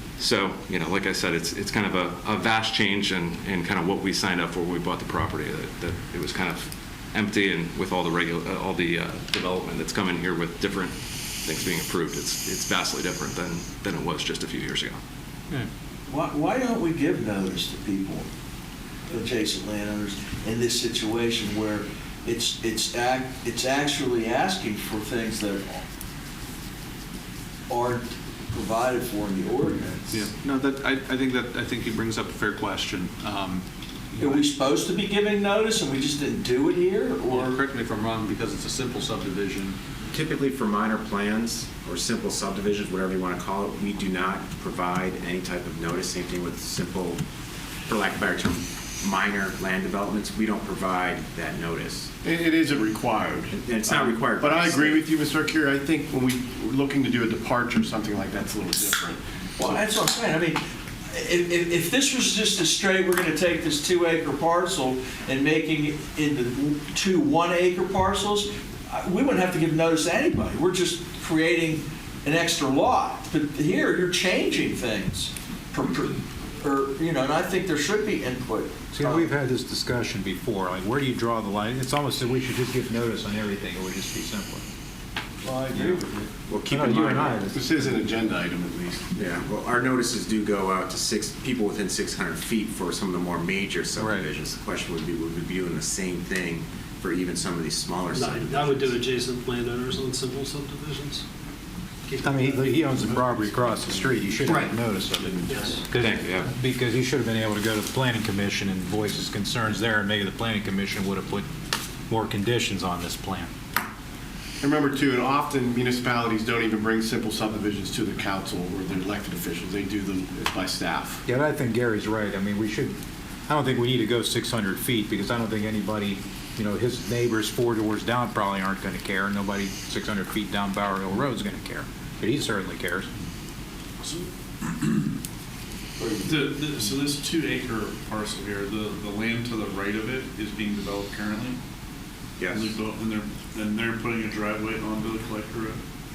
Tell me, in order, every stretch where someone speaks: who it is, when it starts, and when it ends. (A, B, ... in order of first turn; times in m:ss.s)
0:00.2-0:15.0 A
0:16.1-0:18.2 B
0:19.1-0:25.8 B
0:27.7-0:30.1 B
0:30.1-0:34.5 C
0:34.2-0:37.5 B
0:37.3-0:39.8 C
0:40.1-0:47.2 D
0:47.9-0:52.1 D
0:52.2-0:59.7 E
0:53.5-0:55.1 D
0:59.6-1:19.3 B
1:18.9-1:24.6 F
1:25.4-1:26.3 B
1:26.5-1:27.4 D
1:26.7-1:28.0 F
1:27.5-1:29.1 E
1:29.1-1:39.0 D
1:34.0-1:34.2 F
1:38.1-1:41.2 G
1:42.1-1:42.8 G
1:42.2-1:51.4 F
1:45.5-1:45.8 G
1:45.9-1:46.5 A
1:52.1-1:53.5 F
1:54.6-2:01.2 E
2:01.3-2:02.9 F
2:03.5-2:13.1 F
2:16.2-2:21.6 H
2:22.4-2:22.7 D
2:22.5-2:25.8 H